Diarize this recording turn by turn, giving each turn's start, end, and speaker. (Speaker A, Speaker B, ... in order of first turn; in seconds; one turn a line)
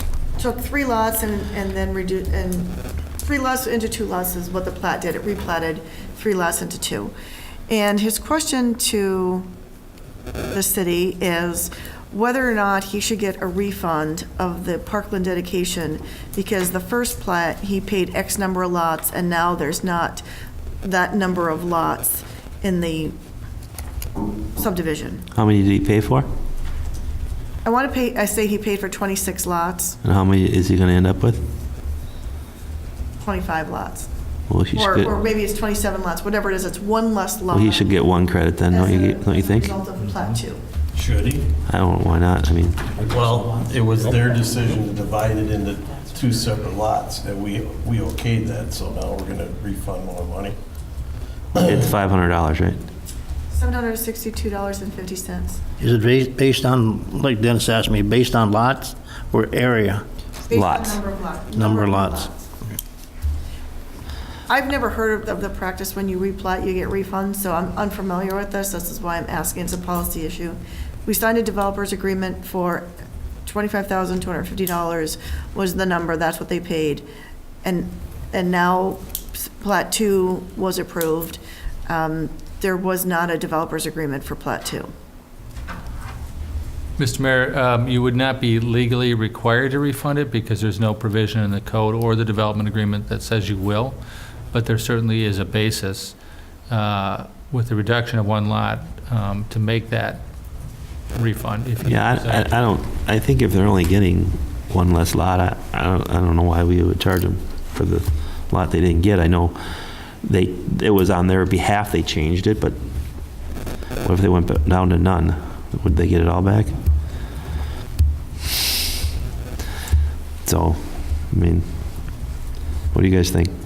Speaker A: 0.4-7.1
Speaker A: 7.7-9.5
Speaker A: 10.5-20.2
Speaker A: 20.8-23.2
Speaker A: 24.6-25.3
Speaker B: 25.3-26.3
Speaker A: 27.6-30.0
Speaker B: 30.0-31.4
Speaker A: 33.2-34.1
Speaker B: 34.5-35.1
Speaker A: 34.7-37.9
Speaker B: 37.5-39.8
Speaker A: 38.7-40.6
Speaker C: 40.9-41.5
Speaker B: 41.7-43.4
Speaker C: 43.0-50.6
Speaker B: 51.6-52.8
Speaker A: 53.5-55.6
Speaker D: 55.8-60.1
Speaker A: 60.4-62.5
Speaker B: 60.5-61.0
Speaker D: 61.5-62.3
Speaker A: 64.5-72.9
Speaker A: 73.5-77.1
Speaker A: 77.6-84.9
Speaker E: 87.0-94.0
Speaker E: 94.5-102.7
Speaker B: 101.8-112.8
Speaker B: 114.0-116.8
Speaker B: 120.4-122.3
Speaker B: 122.9-123.5